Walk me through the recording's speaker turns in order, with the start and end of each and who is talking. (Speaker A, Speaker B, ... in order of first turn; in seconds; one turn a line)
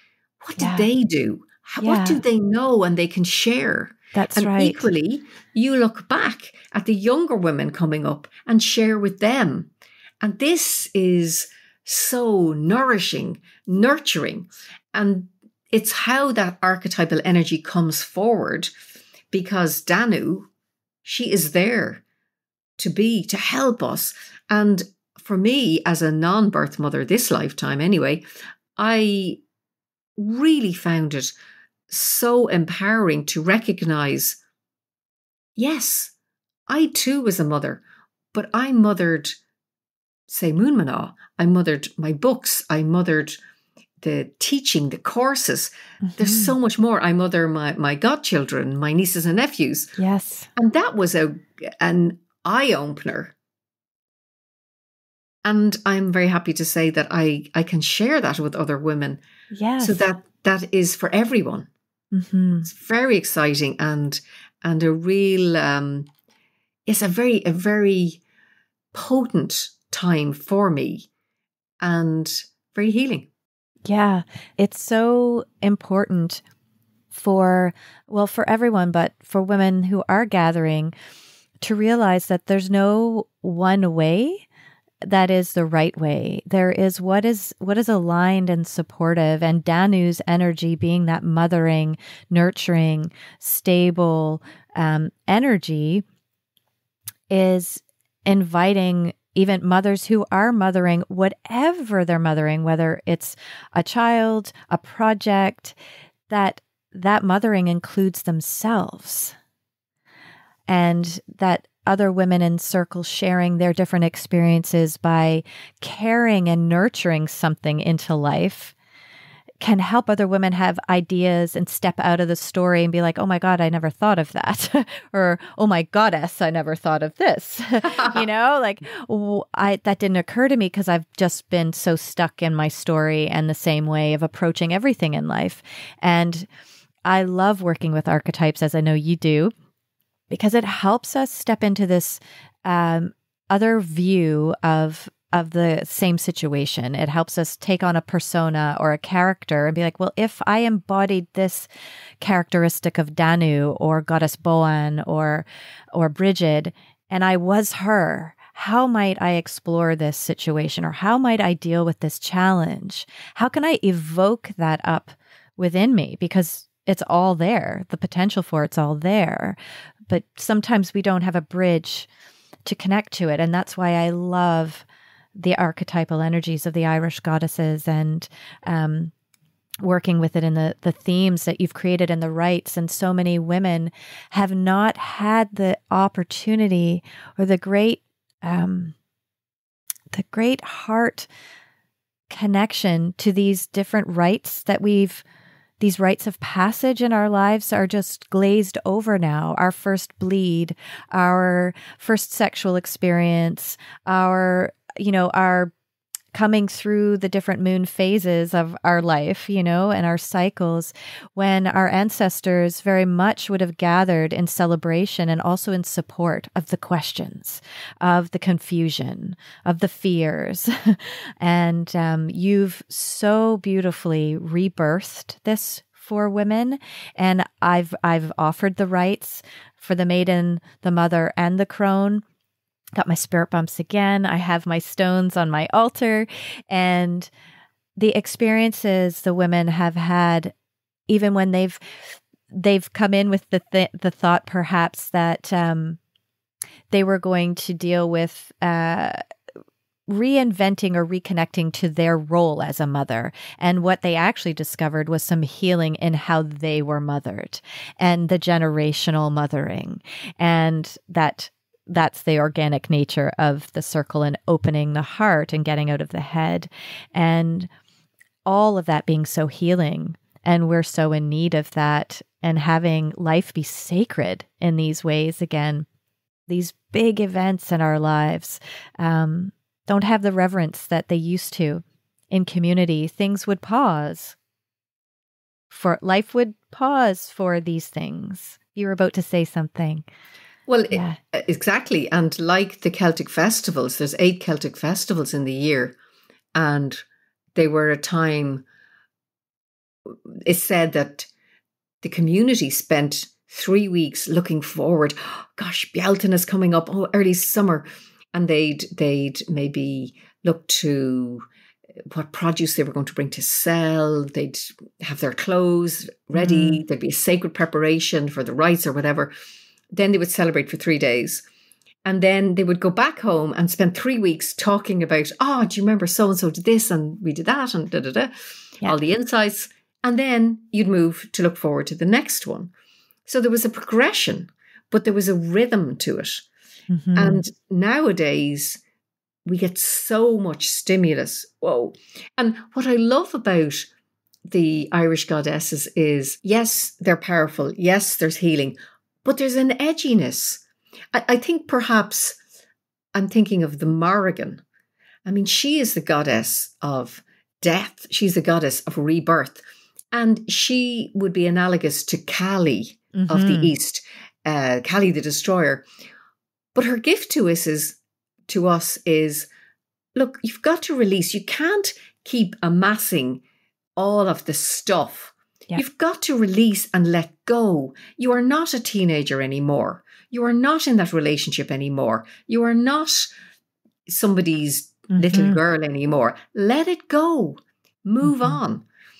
Speaker A: 0.4-9.7
Speaker B: 0.6-0.9
Speaker B: 1.8-2.2
Speaker B: 4.1-4.9
Speaker A: 10.2-18.7
Speaker A: 19.3-20.5
Speaker A: 21.0-22.0
Speaker A: 22.8-28.2
Speaker A: 28.8-29.4
Speaker A: 30.2-31.3
Speaker A: 31.9-34.4
Speaker A: 35.6-36.1
Speaker A: 36.7-37.8
Speaker A: 38.3-39.4
Speaker A: 40.3-43.4
Speaker A: 44.0-49.9
Speaker B: 46.0-46.5
Speaker B: 50.0-50.5
Speaker A: 50.5-53.3
Speaker A: 55.4-59.2
Speaker B: 59.5-60.1
Speaker A: 59.8-61.7
Speaker B: 62.1-62.7
Speaker A: 62.6-66.1
Speaker A: 66.9-68.2
Speaker A: 68.9-71.1
Speaker A: 71.8-73.3
Speaker B: 73.8-76.4
Speaker B: 77.1-80.9
Speaker B: 81.6-84.4
Speaker B: 85.0-96.0
Speaker B: 97.3-105.8
Speaker B: 106.3-109.3
Speaker B: 110.7-118.7
Speaker B: 119.6-136.5
Speaker A: 127.8-128.2
Speaker B: 137.1-139.5
Speaker B: 140.3-151.7
Speaker B: 152.2-169.6
Speaker B: 170.1-172.1
Speaker B: 172.6-174.8
Speaker B: 175.3-179.1
Speaker B: 179.8-188.9
Speaker B: 190.1-191.3
Speaker B: 192.3-195.2
Speaker B: 195.8-205.7
Speaker B: 206.3-232.2
Speaker B: 233.0-237.3
Speaker B: 238.0-240.5
Speaker B: 241.1-241.8
Speaker B: 242.5-246.0
Speaker B: 246.9-249.2
Speaker B: 250.1-267.7
Speaker B: 268.4-275.9
Speaker B: 276.5-284.4
Speaker B: 285.7-290.1
Speaker A: 290.7-295.9
Speaker B: 290.9-291.2
Speaker A: 296.5-297.0
Speaker A: 297.5-298.6
Speaker A: 300.1-301.3
Speaker A: 302.0-311.4
Speaker A: 312.1-319.3
Speaker B: 316.4-316.8
Speaker A: 319.9-321.4
Speaker A: 322.0-328.3
Speaker A: 328.8-332.7
Speaker A: 333.2-336.4
Speaker B: 336.9-337.4
Speaker A: 337.1-338.8
Speaker A: 339.4-343.9
Speaker A: 344.5-350.6
Speaker A: 351.1-352.4
Speaker A: 353.1-354.6
Speaker A: 355.2-359.6
Speaker A: 360.1-365.8
Speaker B: 363.1-363.7
Speaker A: 366.7-369.5
Speaker A: 370.1-373.4
Speaker A: 374.0-383.3
Speaker A: 384.1-388.8
Speaker B: 385.1-385.6
Speaker B: 388.2-388.6